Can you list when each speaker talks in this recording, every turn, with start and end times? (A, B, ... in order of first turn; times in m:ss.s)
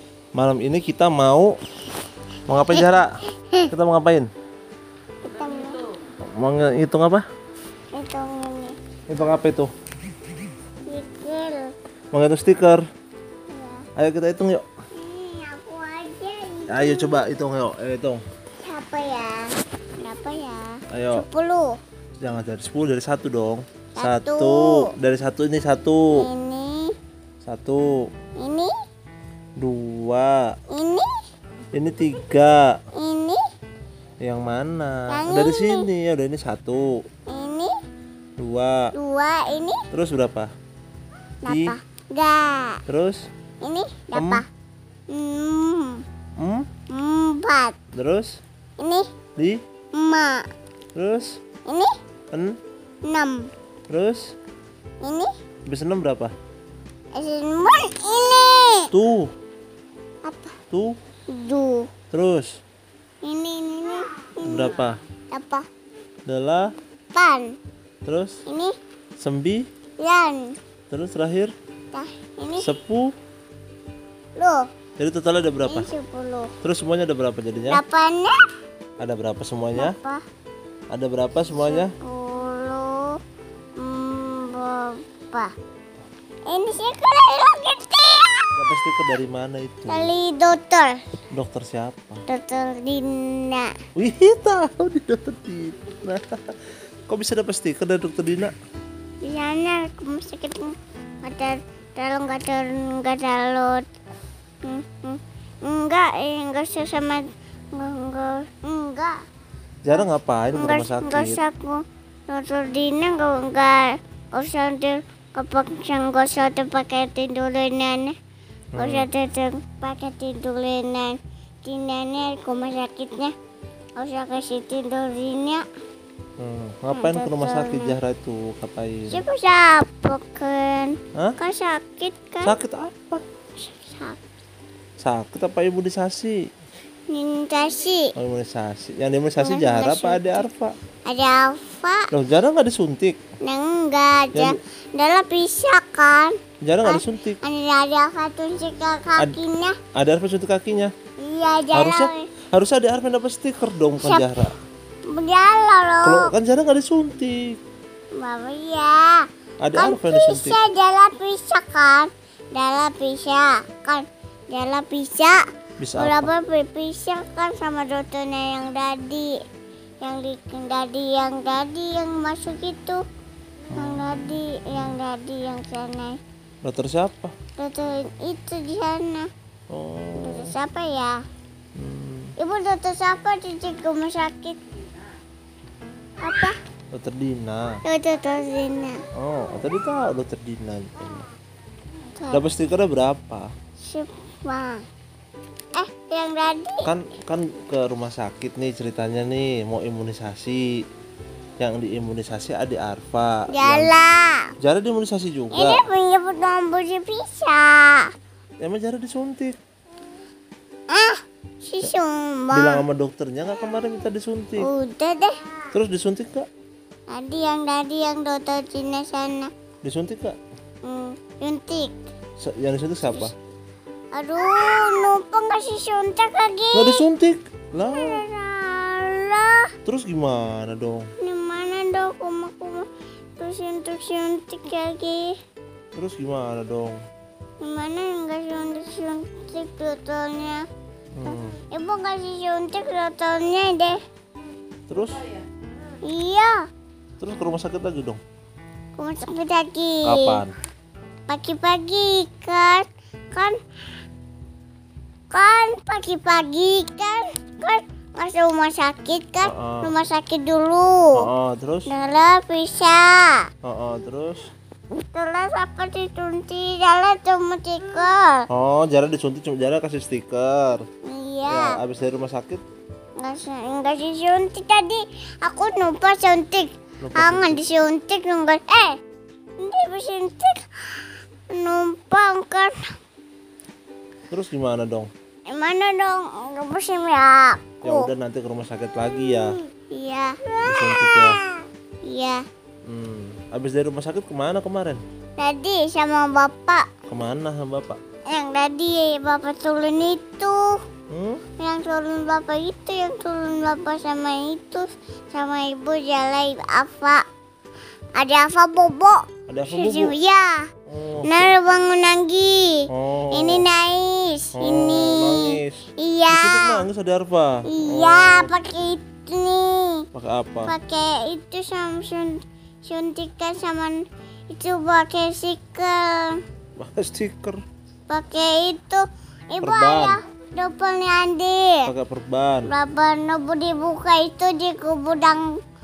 0:00.4-0:01.5 A
0:02.5-0:03.2 A
0:03.7-0:04.3 A
0:05.2-0:05.8 B
0:06.4-0:07.2 A
0:07.9-0:08.8 B
0:09.1-0:09.7 A
0:10.9-0:11.7 B
0:12.1-0:12.8 A
0:13.5-0:13.9 B
0:14.0-0:14.7 A
0:15.0-0:17.2 B
0:16.7-0:18.2 A
0:18.6-0:21.8 B
0:20.9-0:21.3 A
0:22.2-0:26.3 A
0:24.0-0:24.9 B
0:26.1-0:27.0 B
0:27.4-0:28.1 A
0:28.4-0:28.7 B
0:29.6-0:30.5 A
0:30.7-0:31.1 B
0:31.7-0:32.8 A
0:33.0-0:33.4 B
0:34.2-0:37.0 A
0:35.1-0:35.9 B
0:37.3-0:37.7 B
0:38.4-0:38.9 A
0:38.9-0:39.8 B
0:39.9-0:40.5 A
0:41.4-0:42.8 B
0:41.5-0:41.8 A
0:42.9-0:43.2 A
0:43.6-0:44.4 B
0:44.1-0:44.4 A
0:45.1-0:46.0 B
0:46.4-0:46.7 A
0:46.9-0:47.8 B
0:47.9-0:48.4 A
0:48.8-0:49.1 B
0:49.4-0:49.6 A
0:49.9-0:50.4 B
0:51.0-0:51.4 A
0:51.7-0:51.9 B
0:52.3-0:52.6 A
0:53.1-0:53.5 B
0:53.9-0:54.3 A
0:55.0-0:55.3 B
0:55.7-0:56.3 A
0:57.1-0:58.9 B
0:58.9-0:59.3 A
1:00.2-1:00.6 B
1:00.7-1:01.0 A
1:01.3-1:01.9 B
1:02.1-1:02.6 A
1:03.2-1:04.8 B
1:04.4-1:05.0 A
1:05.3-1:05.7 B
1:06.3-1:06.7 A
1:07.1-1:07.6 B
1:08.0-1:08.4 A
1:08.5-1:08.7 B
1:09.2-1:09.7 A
1:10.0-1:10.6 B
1:10.9-1:11.5 A
1:11.9-1:12.7 B
1:12.6-1:13.1 A
1:14.4-1:14.7 B
1:15.0-1:15.9 A
1:15.7-1:16.5 B
1:16.6-1:17.8 A
1:17.7-1:18.4 B
1:19.0-1:20.0 A
1:19.8-1:20.2 B
1:20.9-1:22.0 A
1:21.6-1:23.2 B
1:23.8-1:25.5 B
1:26.5-1:28.5 B
1:28.6-1:30.1 A
1:29.9-1:31.0 B
1:31.3-1:32.2 A
1:32.3-1:33.7 B
1:34.0-1:38.5 A
1:39.2-1:43.9 B
1:44.6-1:49.2 B
1:49.8-1:51.4 A
1:50.5-1:58.2 B
1:58.8-1:59.1 A
1:58.8-2:03.3 B
2:04.0-2:05.6 B
2:06.4-2:09.2 A
2:06.9-2:08.0 B
2:09.1-2:12.6 B
2:12.4-2:13.2 A
2:13.7-2:14.2 B
2:15.0-2:16.4 A
2:17.1-2:18.1 B
2:18.2-2:20.8 A
2:19.4-2:20.5 B
2:21.1-2:22.1 B
2:22.1-2:23.2 A
2:23.4-2:29.8 B
2:26.6-2:27.4 A
2:30.0-2:30.9 A
2:31.2-2:32.3 B
2:31.7-2:34.6 A
2:35.1-2:36.3 B
2:36.0-2:37.6 A
2:38.2-2:45.4 B
2:39.6-2:40.6 A
2:45.8-2:46.3 A
2:46.0-2:49.4 B
2:50.0-2:53.0 B
2:53.7-2:55.0 A
2:53.8-2:56.2 B
2:56.6-2:57.4 A
2:57.6-2:59.3 B
2:59.7-3:00.5 A
3:00.2-3:01.2 B
3:01.8-3:02.3 A
3:02.4-3:04.6 B
3:06.2-3:06.6 B
3:06.9-3:07.8 A
3:07.9-3:09.0 B
3:09.2-3:11.3 A
3:12.2-3:12.4 B
3:12.3-3:13.5 A
3:13.8-3:14.8 B
3:15.7-3:16.9 B
3:16.8-3:20.7 A
3:21.6-3:24.0 A
3:23.5-3:24.5 B
3:24.6-3:25.8 A
3:25.5-3:28.1 B
3:28.6-3:29.6 A
3:30.9-3:32.8 B
3:32.5-3:34.7 A
3:34.6-3:35.4 B
3:35.7-3:36.5 A
3:37.1-3:39.5 B
3:39.8-3:40.4 A
3:40.8-3:41.9 B
3:42.4-3:43.3 A
3:44.1-3:47.0 B
3:46.7-3:48.2 A
3:47.8-3:49.7 B
3:49.8-3:51.1 A
3:51.2-3:52.9 B
3:53.4-3:55.4 B
3:56.0-3:57.0 A
3:57.6-4:00.6 B
4:01.2-4:01.6 A
4:01.3-4:04.0 B
4:04.9-4:05.2 A
4:06.0-4:06.6 B
4:07.2-4:08.2 A
4:09.0-4:10.4 B
4:10.0-4:10.5 A
4:11.3-4:13.6 B
4:15.3-4:21.3 B
4:19.4-4:19.9 A
4:21.2-4:21.9 A
4:21.9-4:23.4 B
4:23.6-4:24.5 A
4:25.0-4:28.4 B
4:28.5-4:30.8 A
4:31.0-4:31.8 B
4:31.5-4:32.6 A
4:33.2-4:39.0 B
4:37.0-4:37.6 A
4:39.6-4:40.6 B
4:41.5-4:42.9 B
4:44.3-4:45.1 A
4:45.5-4:48.1 B
4:47.8-4:49.6 A
4:49.3-4:52.4 B
4:50.6-4:51.4 A
4:52.9-4:55.0 A
4:55.4-4:56.9 B
4:57.1-4:58.0 A
4:58.3-5:00.8 B
5:01.1-5:01.4 A
5:01.6-5:07.2 B
5:08.2-5:10.7 B
5:09.5-5:10.2 A
5:10.9-5:11.6 A
5:11.2-5:16.8 B
5:12.9-5:13.7 A
5:14.6-5:18.5 A
5:17.7-5:20.0 B
5:20.1-5:20.8 A
5:20.7-5:24.0 B
5:24.5-5:26.4 B
5:26.8-5:27.6 A
5:28.1-5:31.9 B
5:29.6-5:30.2 A
5:31.9-5:32.7 A
5:32.7-5:35.5 B